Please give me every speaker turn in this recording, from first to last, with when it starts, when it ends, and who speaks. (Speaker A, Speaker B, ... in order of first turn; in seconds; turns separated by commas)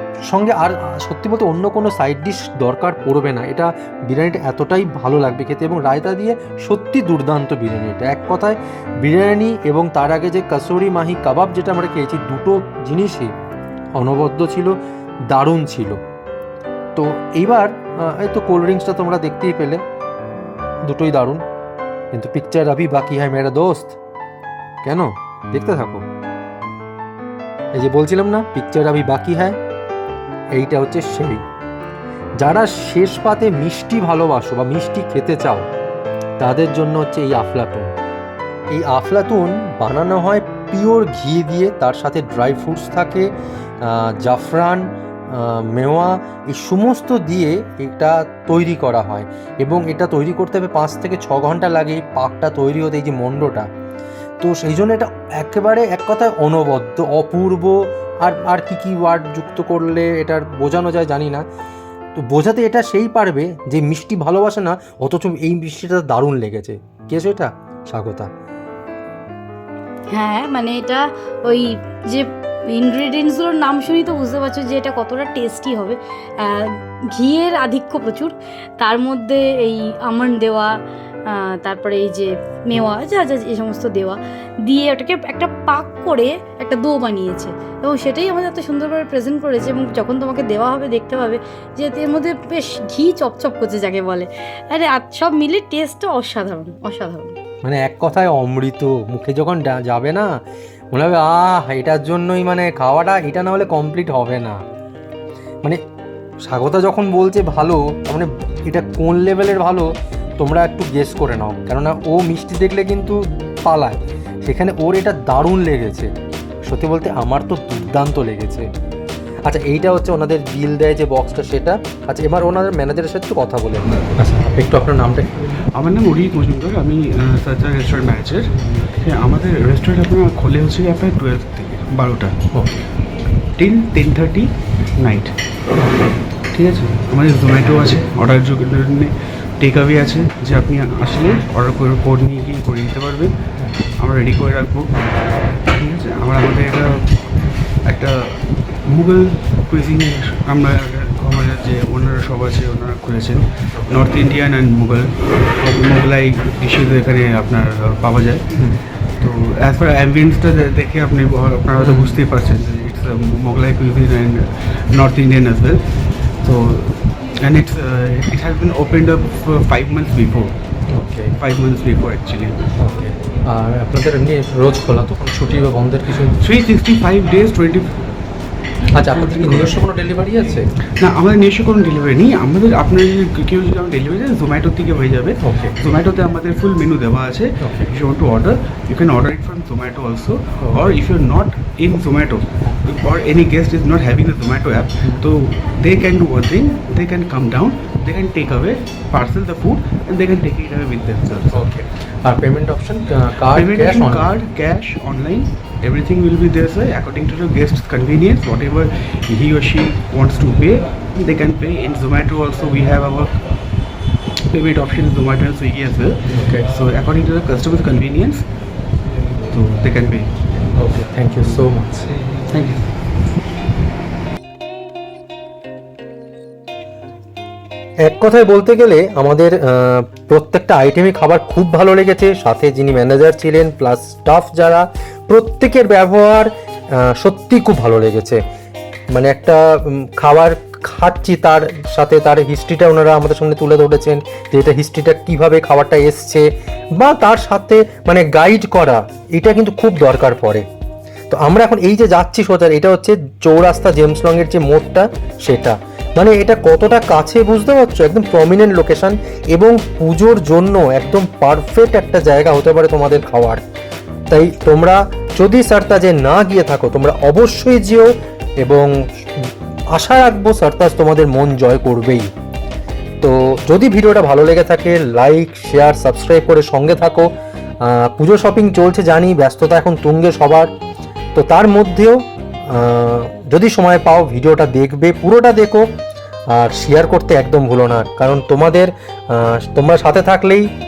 Speaker A: 0.3-13.3, Speaker A: 14.0-14.8, Speaker A: 15.3-16.0, Speaker A: 17.0-19.8, Speaker A: 20.9-21.4, Speaker A: 22.1-24.0, Speaker A: 24.8-26.0, Speaker A: 27.8-29.6, Speaker A: 30.6-31.4, Speaker A: 32.4-35.7, Speaker A: 36.4-37.9, Speaker A: 38.7-43.3, Speaker A: 43.8-53.7, Speaker A: 54.4-61.4, Speaker A: 62.2-68.3, Speaker B: 70.1-80.8, Speaker B: 81.3-97.3, Speaker A: 97.6-100.3, Speaker A: 100.9-104.6, Speaker A: 106.5-116.1, Speaker A: 116.7-118.7, Speaker A: 119.5-125.4, Speaker C: 125.7-132.4, Speaker C: 133.6-135.3, Speaker A: 135.8-136.1, Speaker C: 136.5-143.4, Speaker C: 143.9-144.9, Speaker C: 145.6-158.6, Speaker A: 153.7-154.0, Speaker C: 159.2-170.6, Speaker A: 161.8-162.2, Speaker A: 170.9-171.4, Speaker C: 171.4-172.7, Speaker A: 172.8-176.4, Speaker C: 176.4-178.1, Speaker A: 178.9-180.7, Speaker C: 179.2-179.8, Speaker C: 181.0-201.6, Speaker A: 185.4-185.8, Speaker A: 187.6-187.9, Speaker A: 190.6-190.9, Speaker A: 201.5-204.3, Speaker C: 203.5-213.5, Speaker C: 214.5-218.4, Speaker A: 216.3-216.7, Speaker C: 219.5-220.4, Speaker A: 220.7-222.1, Speaker C: 222.5-222.9, Speaker A: 228.1-238.4, Speaker A: 239.1-250.7, Speaker A: 251.3-263.6, Speaker A: 264.3-272.3, Speaker A: 273.2-277.3, Speaker A: 277.8-280.7, Speaker A: 281.4-285.9, Speaker A: 286.5-290.7